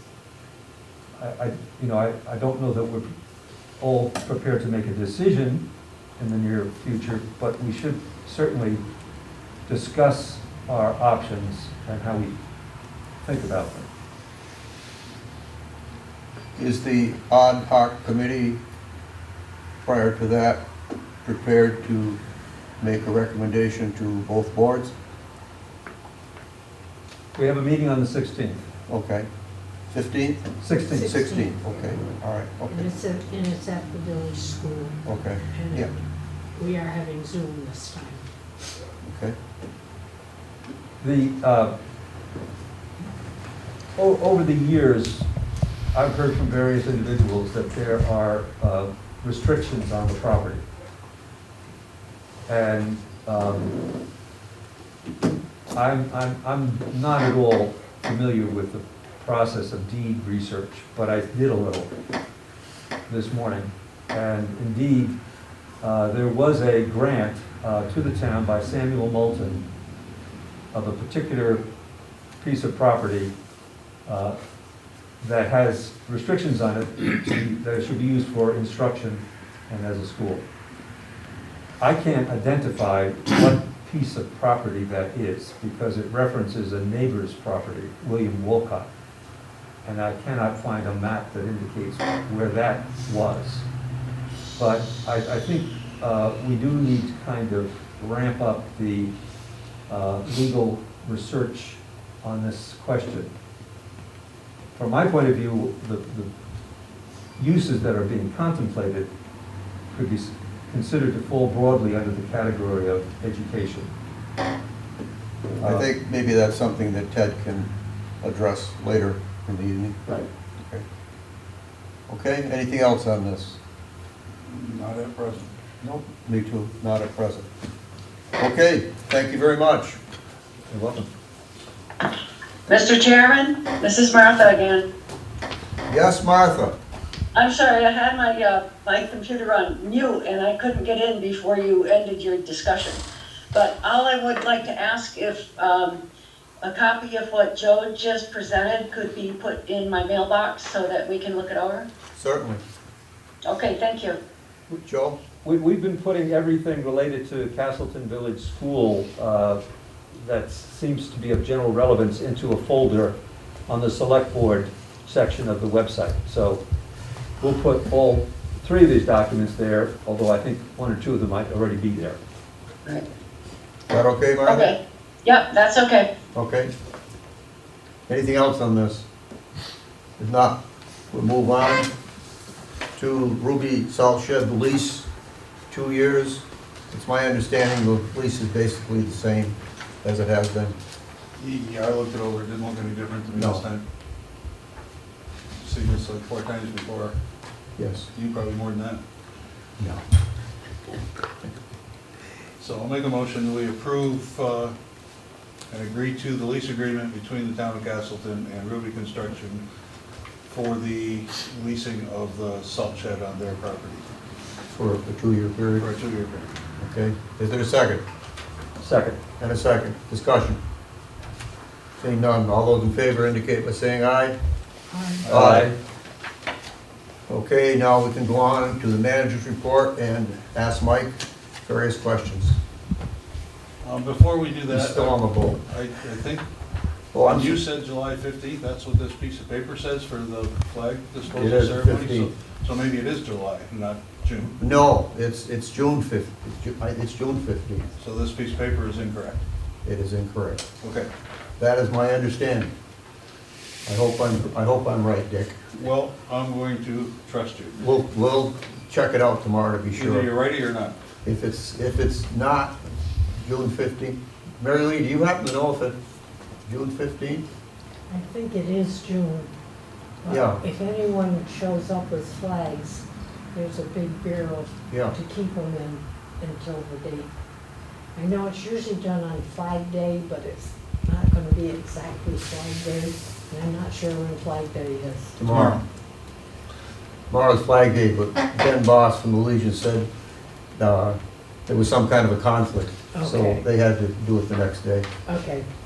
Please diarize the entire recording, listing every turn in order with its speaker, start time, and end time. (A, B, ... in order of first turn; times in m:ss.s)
0:01.2-0:03.1 A
0:03.8-0:05.6 A
0:06.2-0:08.8 A
0:09.7-0:12.4 A
0:13.2-0:13.9 A
0:16.5-0:18.6 B
0:19.8-0:20.6 B
0:21.2-0:22.2 B
0:22.8-0:24.9 B
0:27.3-0:28.6 A
0:28.9-0:29.3 B
0:29.9-0:32.9 B
0:30.6-0:31.1 A
0:30.9-0:31.5 C
0:32.7-0:35.0 C
0:35.0-0:35.9 B
0:35.5-0:38.3 C
0:39.0-0:39.4 B
0:41.0-0:41.7 A
0:44.0-0:45.3 A
0:45.9-0:50.6 A
0:52.5-0:53.8 A
0:55.7-1:01.9 A
1:03.1-1:05.2 A
1:05.8-1:09.7 A
1:10.7-1:11.6 A
1:12.4-1:13.3 A
1:14.1-1:14.4 A
1:15.2-1:20.4 A
1:21.8-1:28.9 A
1:29.8-1:33.7 A
1:34.6-1:39.1 A
1:39.9-1:43.3 A
1:44.8-1:46.3 A
1:47.4-1:49.1 A
1:49.9-1:53.9 A
1:55.6-1:55.9 A
1:55.6-1:57.7 B
1:58.2-2:00.8 B
2:02.1-2:03.6 B
2:04.4-2:05.5 D
2:05.8-2:07.5 B
2:08.4-2:10.0 B
2:10.7-2:11.1 A
2:12.7-2:14.9 E
2:15.9-2:16.8 B
2:17.3-2:26.0 E
2:26.6-2:31.9 E
2:32.2-2:32.6 B
2:33.4-2:34.2 E
2:34.7-2:35.2 B
2:35.4-2:39.6 A
2:40.1-2:43.2 A
2:43.7-2:46.6 A
2:47.4-2:52.2 A
2:53.9-2:54.7 B
2:54.5-2:56.1 E
2:56.3-2:56.7 B
2:58.1-2:59.1 B
3:00.2-3:01.9 B
3:03.0-3:05.1 B
3:05.7-3:10.8 B
3:11.4-3:13.8 D
3:13.3-3:13.6 B
3:15.6-3:17.2 D
3:17.8-3:18.1 B
3:18.1-3:19.0 D
3:22.6-3:24.7 D
3:25.7-3:29.6 D
3:30.5-3:34.0 D
3:34.7-3:35.9 B
3:35.8-3:36.5 D
3:36.8-3:38.0 B
3:38.8-3:39.2 A
3:39.4-3:40.6 B
3:42.0-3:44.4 B
3:44.9-3:45.3 C
3:45.2-3:45.8 A
3:45.3-3:45.7 B
3:47.3-3:52.6 B
3:53.8-3:56.4 D
3:54.7-3:55.6 B
3:57.1-3:57.6 B
3:57.2-4:04.6 D
4:01.3-4:02.3 B
4:04.6-4:07.9 B
4:08.0-4:09.4 D
4:09.8-4:10.7 B
4:10.8-4:11.1 D
4:11.6-4:12.7 B
4:13.9-4:15.6 B
4:15.7-4:17.8 D
4:17.8-4:20.3 B
4:19.9-4:21.0 D
4:21.2-4:22.8 B
4:23.3-4:26.0 B
4:26.7-4:27.4 B
4:28.1-4:29.5 C
4:30.2-4:37.3 C
4:30.3-4:30.6 B
4:34.9-4:35.1 B
4:38.2-4:45.4 C
4:45.4-4:45.8 B
4:45.4-4:45.8 D
4:47.3-4:50.1 B
4:50.8-4:55.1 B
4:53.1-4:53.6 C
4:55.2-4:55.7 C